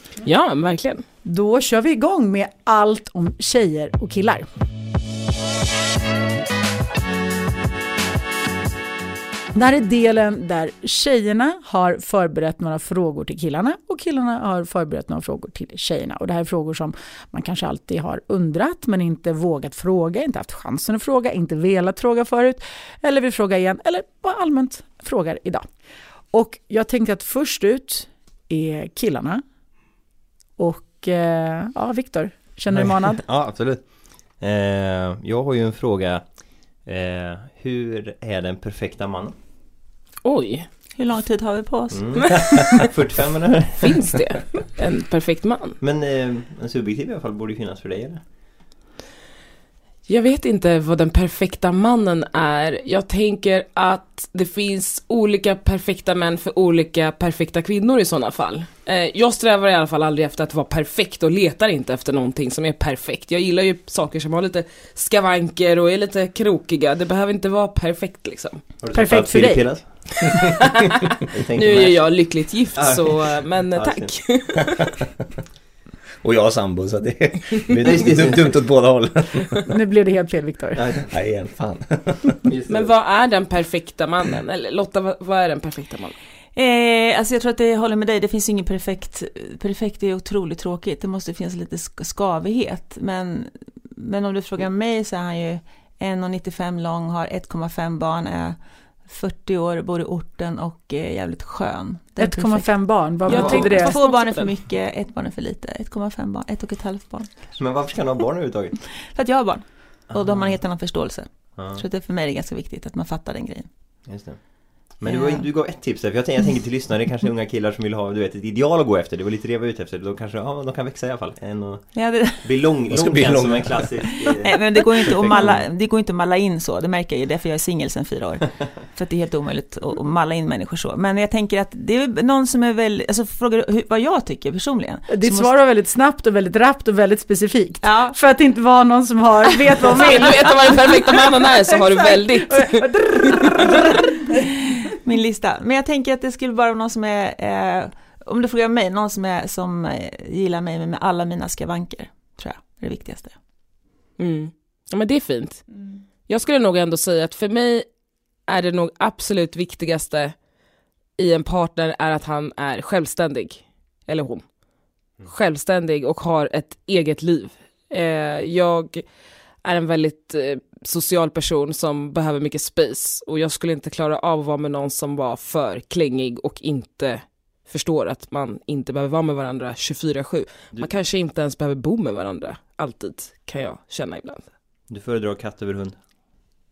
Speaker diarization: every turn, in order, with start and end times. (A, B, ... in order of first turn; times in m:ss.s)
0:00.2-0:01.0 A
0:01.2-0:04.5 B
0:09.5-0:25.6 B
0:26.3-0:29.4 B
0:30.6-0:33.2 B
0:32.7-0:39.4 C
0:40.2-0:40.7 A
0:40.9-0:42.9 D
0:41.9-0:44.1 C
0:42.3-0:42.9 A
0:43.8-0:45.8 A
0:45.8-0:48.2 C
0:50.1-1:08.6 A
1:08.8-1:10.2 C
1:08.9-1:09.7 B
1:10.2-1:15.0 A
1:11.3-1:12.2 C
1:12.8-1:14.1 C
1:16.2-1:19.7 E
1:17.7-1:18.6 C
1:19.7-1:20.8 B
1:20.7-1:21.1 C
1:21.1-1:22.4 E
1:22.4-1:22.9 C
1:22.7-1:26.2 A
1:26.6-1:47.6 D
1:42.2-1:44.0 B
1:43.2-1:44.5 A
1:43.3-1:43.6 C
1:47.5-1:48.7 C
1:48.8-1:53.7 D
1:50.1-1:50.6 C
1:51.5-1:51.8 C
1:54.0-2:05.6 C
1:55.0-1:55.5 D
2:01.9-2:02.9 D
2:02.9-2:04.1 E
2:04.1-2:15.5 D
2:15.1-2:24.3 B
2:17.8-2:18.2 D
2:19.9-2:23.6 A
2:20.2-2:20.5 D
2:24.8-2:33.3 D
2:34.2-2:37.8 A
2:38.5-2:40.4 A
2:41.2-2:44.5 A
2:45.2-2:49.0 A
2:49.6-3:04.5 A
3:04.9-3:06.0 C